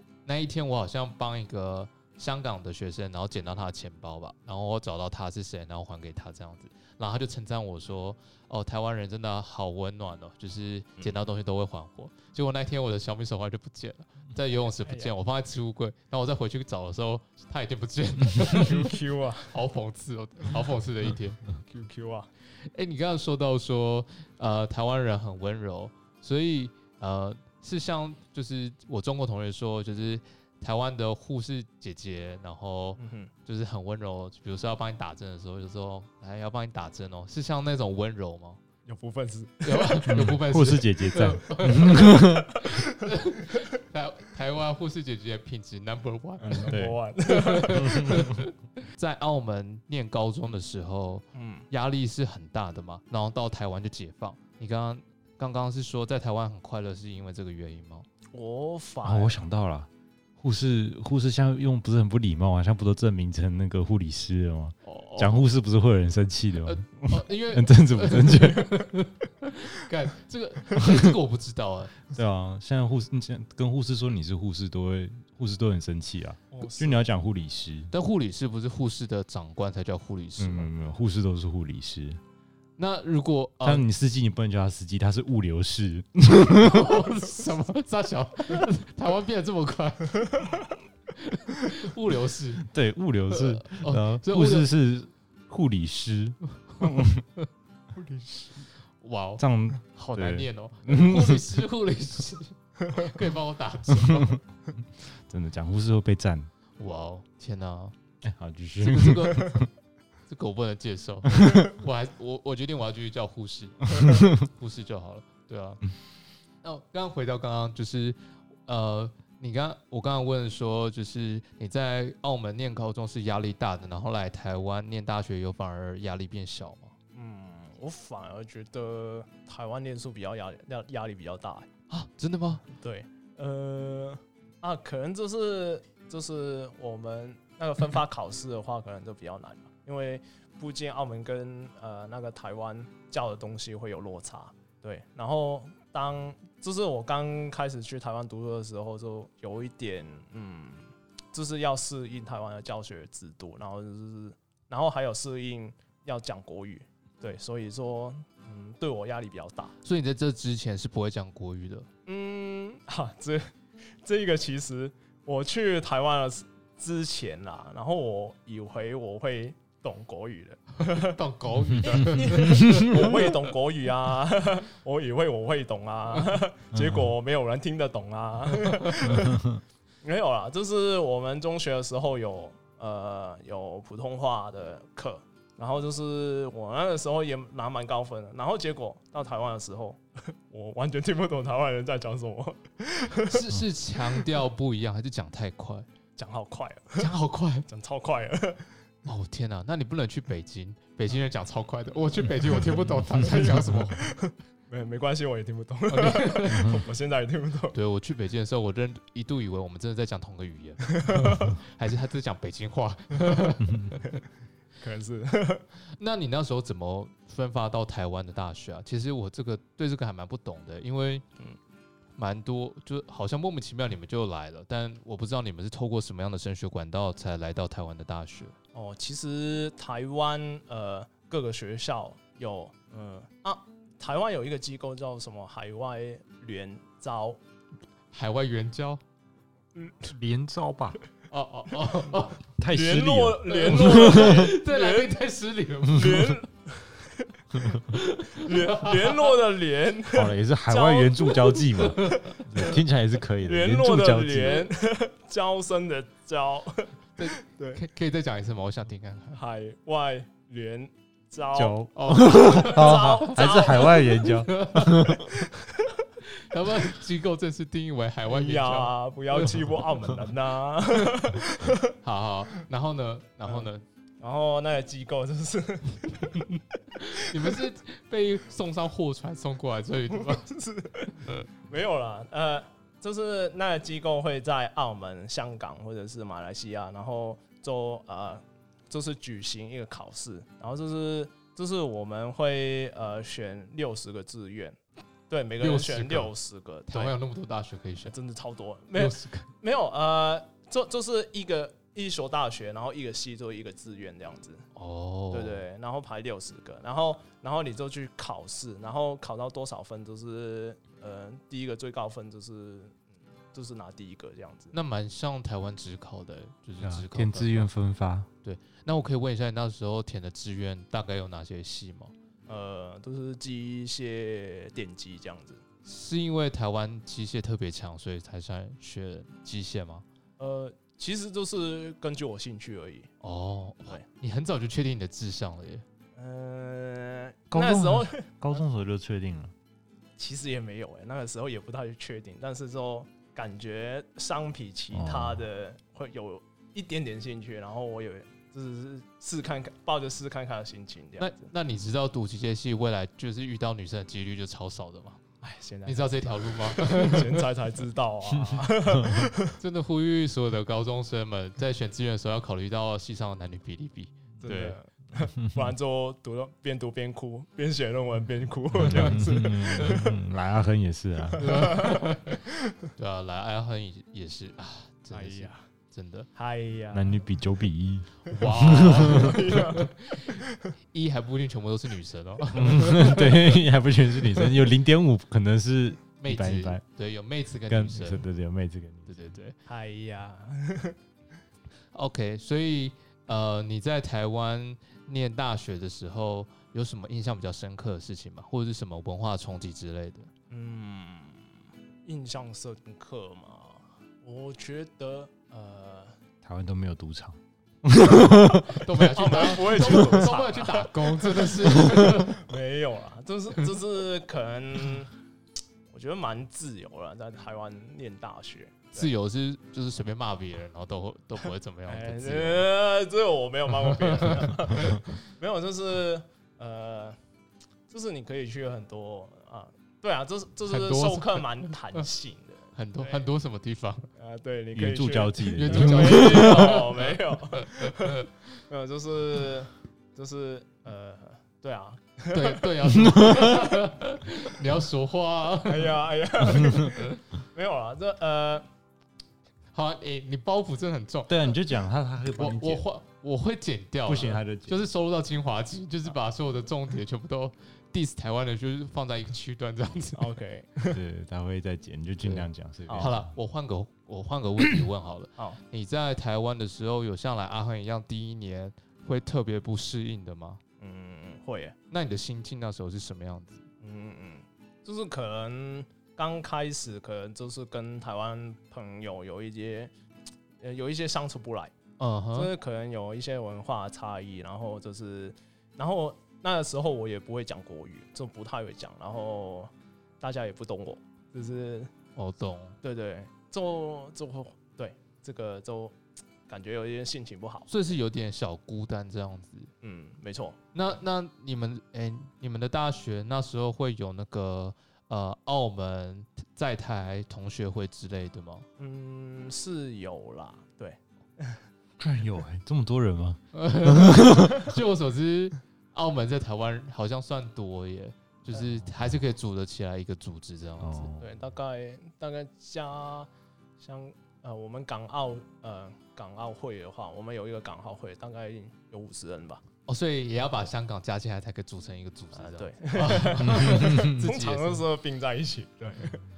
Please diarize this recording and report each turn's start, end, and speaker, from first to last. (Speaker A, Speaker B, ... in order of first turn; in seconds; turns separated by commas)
Speaker A: 0.3-19.0, Speaker B: 14.8-15.1, Speaker B: 18.4-19.6, Speaker A: 19.5-21.5, Speaker B: 21.6-22.3, Speaker A: 22.6-38.6, Speaker B: 33.0-33.3, Speaker B: 38.9-40.2, Speaker A: 39.6-46.8, Speaker C: 40.1-42.6, Speaker B: 42.4-43.6, Speaker C: 46.4-47.0, Speaker B: 46.5-48.3, Speaker A: 47.3-58.1, Speaker C: 47.7-48.4, Speaker B: 51.3-51.7, Speaker B: 58.3-59.4, Speaker C: 59.0-68.9, Speaker A: 64.8-65.4, Speaker A: 66.6-72.1, Speaker C: 70.8-71.1, Speaker C: 72.1-77.9, Speaker B: 76.5-77.1, Speaker A: 77.9-80.7, Speaker C: 80.4-82.2, Speaker A: 82.8-83.8, Speaker C: 83.6-87.0, Speaker A: 86.6-90.6, Speaker A: 91.1-92.7, Speaker C: 92.6-97.2, Speaker A: 93.3-94.7, Speaker B: 98.0-98.5, Speaker A: 99.0-104.4, Speaker C: 99.4-101.6, Speaker C: 104.0-104.4, Speaker C: 105.1-106.5, Speaker A: 106.8-108.0, Speaker C: 108.2-109.7, Speaker A: 108.8-109.7, Speaker A: 110.3-115.9, Speaker C: 111.3-111.7, Speaker C: 114.0-114.3, Speaker A: 116.6-126.9, Speaker B: 127.1-131.7, Speaker A: 131.9-132.7, Speaker B: 132.7-159.8, Speaker A: 159.8-161.9, Speaker B: 162.1-171.2, Speaker A: 170.9-173.4, Speaker C: 171.7-172.9, Speaker B: 171.8-179.4, Speaker C: 176.7-177.1, Speaker C: 179.1-179.6, Speaker B: 180.0-193.5, Speaker A: 193.3-195.9, Speaker B: 196.2-197.1, Speaker A: 197.0-197.7, Speaker B: 197.7-198.8, Speaker A: 199.1-204.1, Speaker B: 203.3-207.8, Speaker A: 205.9-206.8, Speaker A: 207.7-214.1, Speaker B: 210.9-211.6, Speaker B: 214.8-215.7, Speaker A: 216.0-221.2, Speaker A: 222.2-228.6, Speaker B: 228.7-237.4, Speaker A: 238.1-239.0, Speaker B: 239.8-240.1, Speaker C: 240.0-241.0, Speaker A: 241.3-242.4, Speaker C: 242.6-244.5, Speaker B: 242.7-245.2, Speaker A: 243.6-246.4, Speaker B: 245.9-247.4, Speaker A: 247.9-249.4, Speaker B: 248.3-252.3, Speaker C: 250.1-254.7, Speaker A: 251.8-252.7, Speaker B: 253.4-257.8, Speaker A: 257.2-259.4, Speaker B: 259.3-264.3, Speaker C: 261.6-265.3, Speaker A: 261.9-265.3, Speaker B: 265.2-266.0, Speaker A: 266.2-269.7, Speaker B: 268.3-271.9, Speaker A: 272.0-273.8, Speaker B: 274.2-276.5, Speaker A: 277.0-280.5, Speaker B: 280.2-294.8, Speaker A: 281.1-281.5, Speaker B: 295.3-297.2, Speaker A: 295.6-296.3, Speaker A: 296.9-298.1, Speaker B: 298.0-304.7, Speaker A: 298.9-299.5, Speaker A: 304.8-305.6, Speaker B: 305.3-314.7, Speaker A: 314.7-317.7, Speaker C: 316.8-318.3, Speaker A: 318.4-322.1, Speaker B: 322.5-325.6, Speaker A: 325.9-330.1, Speaker B: 330.4-333.1, Speaker A: 333.2-335.8, Speaker B: 336.2-338.6, Speaker C: 337.5-339.5, Speaker B: 340.2-351.5, Speaker C: 344.9-345.4, Speaker A: 351.2-355.2, Speaker B: 355.4-359.6, Speaker A: 355.9-357.4, Speaker A: 359.6-364.8, Speaker B: 364.4-370.1, Speaker C: 368.7-371.7, Speaker B: 371.4-372.9, Speaker A: 371.4-372.4, Speaker A: 373.0-376.3, Speaker B: 375.1-375.6, Speaker B: 376.4-377.2, Speaker C: 376.9-379.4, Speaker A: 378.3-383.5, Speaker B: 378.6-380.7, Speaker C: 382.5-386.8, Speaker A: 386.2-388.2, Speaker C: 387.7-389.4, Speaker A: 389.1-389.6, Speaker B: 389.7-391.0, Speaker A: 391.9-400.3, Speaker B: 400.5-406.2, Speaker C: 406.4-408.9, Speaker A: 408.3-412.4, Speaker B: 408.9-415.1, Speaker C: 409.8-410.2, Speaker C: 411.8-412.1, Speaker B: 415.9-419.1, Speaker A: 418.9-422.7, Speaker B: 421.9-427.2, Speaker A: 423.9-425.0, Speaker B: 427.9-433.3, Speaker A: 430.7-432.0, Speaker A: 432.8-434.1, Speaker B: 434.2-442.7, Speaker C: 434.7-436.7, Speaker A: 435.5-438.3, Speaker A: 442.3-446.0, Speaker C: 442.9-443.5, Speaker B: 445.6-448.6, Speaker C: 446.5-446.9, Speaker A: 446.9-447.2, Speaker A: 449.7-451.5, Speaker C: 451.3-452.8, Speaker A: 452.3-460.4, Speaker C: 454.1-454.8, Speaker B: 460.2-461.0, Speaker C: 460.9-463.3, Speaker A: 462.2-470.6, Speaker B: 462.9-463.1, Speaker B: 470.8-471.8, Speaker A: 471.9-473.6, Speaker B: 473.8-479.9, Speaker B: 480.6-481.7, Speaker A: 482.0-482.5, Speaker B: 482.3-491.9, Speaker A: 492.2-492.8, Speaker B: 492.8-496.0, Speaker B: 496.5-497.7, Speaker A: 497.7-499.7, Speaker B: 499.8-500.6, Speaker A: 500.7-508.7, Speaker B: 508.8-511.7, Speaker C: 512.0-514.8, Speaker A: 513.5-521.1, Speaker C: 518.9-519.1, Speaker C: 520.8-521.4, Speaker B: 521.2-523.3, Speaker B: 523.8-529.6, Speaker A: 529.9-534.9, Speaker B: 532.3-536.2, Speaker C: 533.4-534.3